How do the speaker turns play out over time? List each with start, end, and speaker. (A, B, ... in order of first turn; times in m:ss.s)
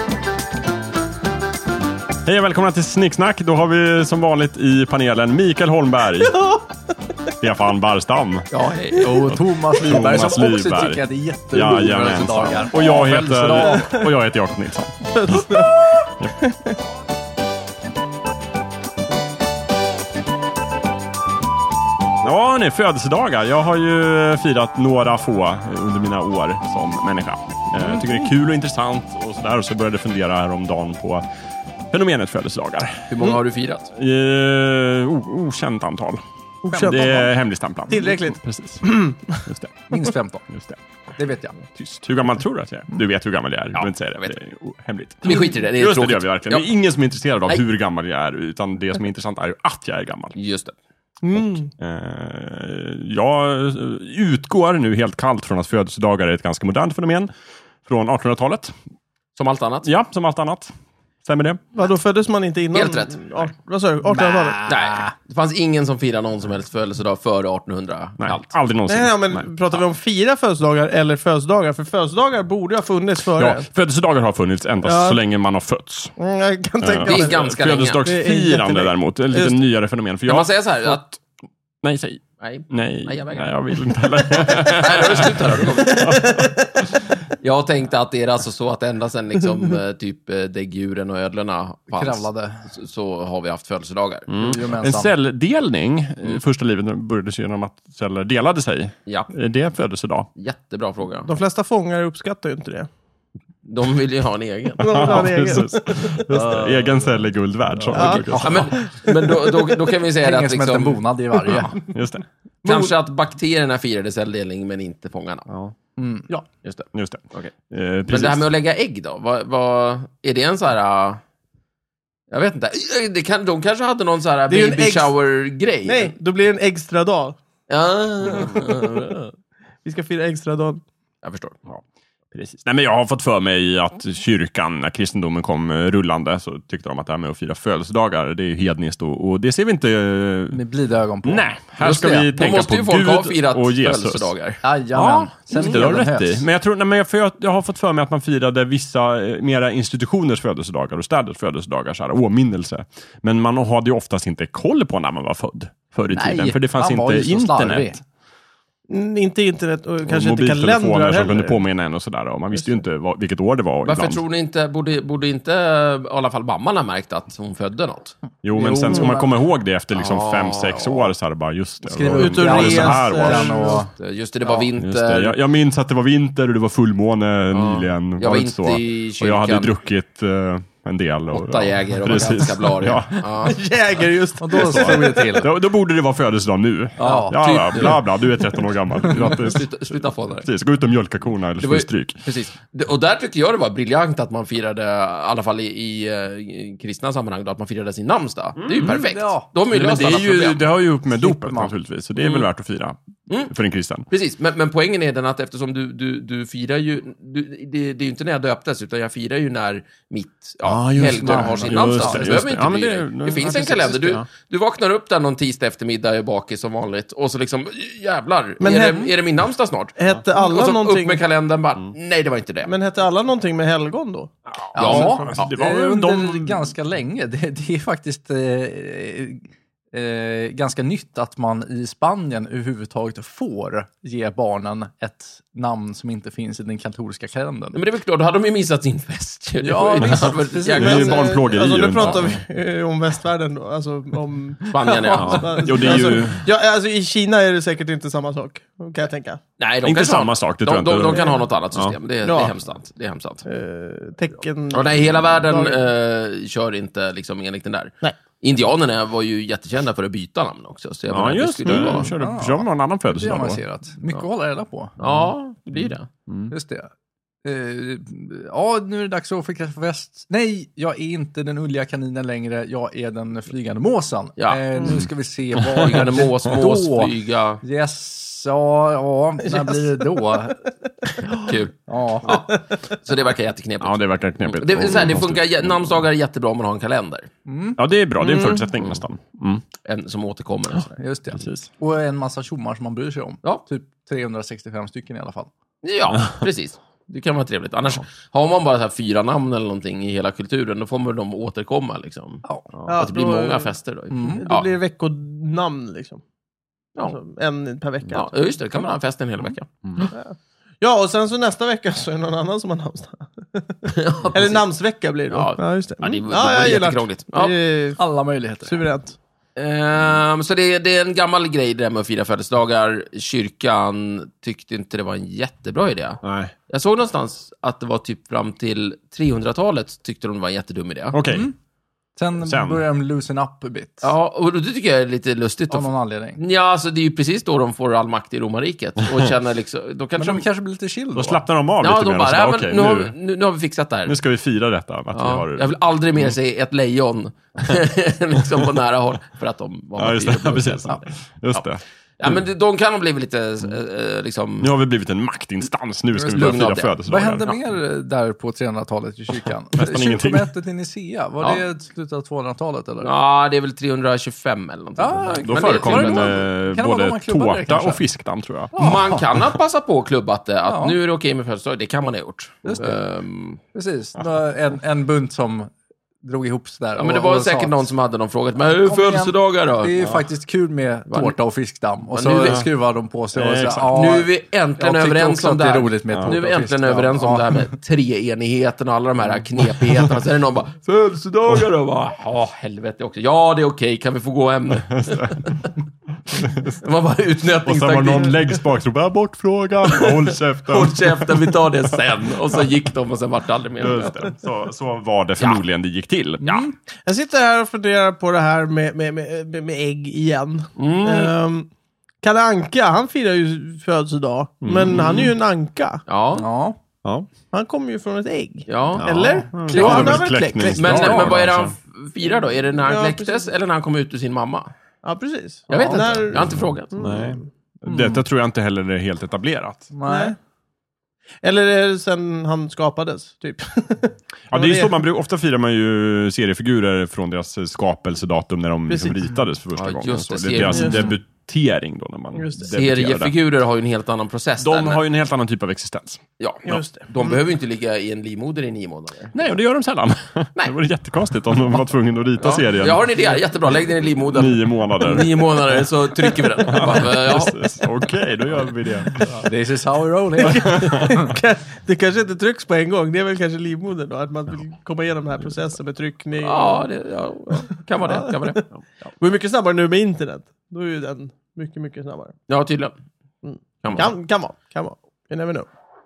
0:02.2-0:06.4 A
0:06.4-0:06.6 B
0:07.4-0:08.5 A
0:08.5-0:09.4 C
0:08.9-0:13.9 D
0:09.3-0:15.6 A
0:13.7-0:14.0 B
0:15.2-0:16.8 B
0:22.2-0:31.3 A
0:31.9-0:33.1 A
0:33.1-0:33.9 C
0:33.9-0:38.9 A
0:36.6-0:37.3 B
0:37.9-0:39.4 B
0:39.4-0:39.9 A
0:39.9-0:40.5 D
0:40.5-0:40.8 A
0:41.2-0:41.6 D
0:41.7-0:50.4 A
0:43.8-0:44.3 C
0:45.2-0:46.7 C
0:50.4-0:50.8 C
0:51.2-0:51.7 B
0:51.4-0:57.3 A
0:57.8-0:58.7 A
0:59.4-0:59.9 C
0:59.8-1:01.6 A
1:01.7-1:04.7 B
1:02.7-1:03.5 C
1:04.1-1:05.1 D
1:04.7-1:08.5 C
1:08.2-1:09.8 A
1:08.9-1:13.7 B
1:13.3-1:16.2 A
1:14.8-1:15.2 B
1:16.2-1:17.5 B
1:16.8-1:21.2 A
1:17.0-1:18.1 C
1:18.0-1:19.6 B
1:20.3-1:21.0 C
1:21.8-1:26.5 A
1:22.4-1:23.5 C
1:24.3-1:26.4 C
1:25.9-1:26.8 B
1:27.4-1:34.3 C
1:31.9-1:32.7 D
1:34.3-1:40.3 A
1:34.4-1:35.1 D
1:40.4-1:41.3 C
1:41.3-1:42.9 B
1:43.6-1:45.3 C
1:44.8-1:46.5 B
1:44.8-1:48.7 A
1:46.3-1:46.7 D
1:47.9-1:48.7 D
1:47.9-1:49.7 B
1:48.4-1:51.0 C
1:50.2-1:51.8 D
1:51.9-1:52.3 A
1:52.6-1:55.5 C
1:55.5-1:55.7 A
1:56.0-1:56.3 D
1:56.6-1:57.5 C
1:56.9-1:58.5 A
1:58.1-2:01.2 C
2:02.3-2:06.1 C
2:04.5-2:05.1 B
2:05.9-2:07.4 B
2:07.7-2:09.2 C
2:08.4-2:09.2 B
2:09.8-2:10.8 B
2:11.2-2:11.6 C
2:11.7-2:20.6 A
2:20.5-2:21.5 D
2:21.2-2:24.3 A
2:21.8-2:24.6 C
2:24.6-2:26.5 D
2:24.9-2:38.0 A
2:36.1-2:38.0 D
2:38.9-2:41.6 B
2:40.0-2:44.2 A
2:43.8-2:48.2 C
2:48.4-2:53.8 A
2:48.5-2:49.3 D
2:49.9-2:51.1 C
2:51.8-2:53.9 D
2:52.1-2:53.8 B
2:54.0-2:55.4 C
2:54.8-3:03.2 A
2:57.5-2:59.7 C
3:01.3-3:03.6 C
3:03.4-3:05.5 B
3:04.4-3:05.5 D
3:04.6-3:09.7 A
3:07.0-3:07.9 D
3:07.0-3:08.0 C
3:09.0-3:10.5 C
3:09.0-3:09.4 D
3:10.4-3:12.3 A
3:11.6-3:20.7 C
3:18.6-3:18.9 A
3:18.8-3:19.5 D
3:19.7-3:24.1 A
3:21.1-3:21.7 D
3:22.2-3:22.5 C
3:24.1-3:42.8 C
3:30.6-3:34.3 A
3:31.0-3:32.4 D
3:38.6-3:39.1 B
3:40.0-3:41.2 B
3:42.7-3:44.3 B
3:44.5-3:46.7 A
3:44.8-3:45.5 C
3:44.8-3:57.8 D
3:57.7-4:01.2 C
3:59.6-4:01.2 D
4:00.7-4:02.4 A
4:00.8-4:09.4 B
4:04.7-4:06.2 C
4:05.2-4:06.5 A
4:09.6-4:13.5 C
4:09.8-4:12.0 A
4:11.1-4:11.4 B
4:12.2-4:12.6 B
4:13.5-4:15.8 B
4:14.7-4:22.1 C
4:21.1-4:23.6 A
4:21.9-4:25.0 D
4:25.0-4:26.1 C
4:25.8-4:26.5 A
4:26.5-4:26.9 D
4:27.4-4:40.6 D
4:34.4-4:34.6 C
4:34.8-4:35.1 B
4:35.7-4:37.6 C
4:39.6-4:40.0 B
4:41.1-4:41.5 B
4:41.2-4:47.3 C
4:41.9-4:42.5 D
4:43.8-4:46.0 A
4:47.5-4:47.8 D
4:47.8-4:49.6 A
4:48.2-4:48.7 B
4:49.8-4:51.0 C
4:51.0-4:55.5 D
4:51.4-4:51.7 A
4:55.8-5:04.7 C
5:02.9-5:06.2 B
5:04.1-5:04.4 D
5:07.0-5:09.0 B
5:08.1-5:10.1 C
5:10.1-5:18.0 B
5:13.9-5:14.6 C
5:15.3-5:17.5 C
5:18.0-5:18.8 D
5:18.6-5:19.2 B
5:19.6-5:31.2 C
5:26.2-5:26.5 A
5:31.1-5:31.5 A
5:31.3-5:31.6 D
5:32.2-5:34.1 D
5:32.4-5:32.8 A
5:34.0-5:40.4 C
5:35.7-5:36.4 D
5:40.2-5:41.4 D
5:41.1-5:43.1 A
5:41.8-5:44.2 C
5:44.1-5:46.3 A
5:45.1-5:51.6 C
5:50.0-5:52.4 A
5:52.2-5:54.7 C
5:54.6-5:57.5 A
5:56.2-6:03.1 D
5:56.3-5:57.0 C
5:59.8-6:00.5 A
6:03.0-6:06.4 C
6:05.0-6:08.0 D
6:05.4-6:08.8 A
6:08.8-6:09.2 D
6:08.8-6:13.6 C
6:10.7-6:11.0 D
6:12.6-6:13.0 D
6:13.7-6:15.7 D
6:16.2-6:17.9 D
6:17.0-6:20.0 C
6:18.6-6:27.7 D
6:21.1-6:21.4 C
6:22.1-6:22.6 C
6:23.3-6:24.0 A
6:23.9-6:35.7 C
6:26.1-6:26.4 A
6:34.9-6:35.5 A
6:36.3-6:36.8 A
6:36.5-6:38.6 C
6:37.6-6:41.6 A
6:39.9-6:44.3 C
6:43.8-6:46.5 A
6:46.4-6:46.7 D
6:47.0-6:51.7 B
6:50.8-6:51.3 C
6:52.2-6:56.0 B
6:54.6-6:55.3 A
6:56.1-6:56.5 C
6:56.3-6:56.8 D
6:57.5-7:01.4 B
6:58.7-7:04.7 C
6:59.0-7:01.8 A
6:59.7-7:00.2 D
7:02.9-7:03.5 B
7:05.0-7:07.4 B
7:05.7-7:07.0 C
7:05.7-7:06.2 D
7:06.3-7:09.9 A
7:07.9-7:08.2 D
7:09.9-7:10.4 D
7:10.1-7:10.4 B
7:11.4-7:15.0 B
7:14.5-7:23.3 A
7:18.9-7:19.2 B
7:19.8-7:21.1 C
7:20.7-7:21.1 B
7:22.3-7:22.7 B
7:22.6-7:25.0 C
7:24.6-7:26.2 A
7:26.4-7:29.3 C
7:26.7-7:27.4 B
7:29.3-7:33.0 A
7:32.4-7:37.7 C
7:34.3-7:35.4 A
7:36.7-7:39.5 A
7:39.4-7:41.3 D
7:40.4-7:46.9 B
7:40.5-7:41.1 A
7:46.4-7:48.7 C
7:47.5-7:48.6 B
7:49.2-7:52.4 B
7:52.5-7:53.0 C
7:53.4-7:55.7 B
7:53.8-7:54.1 C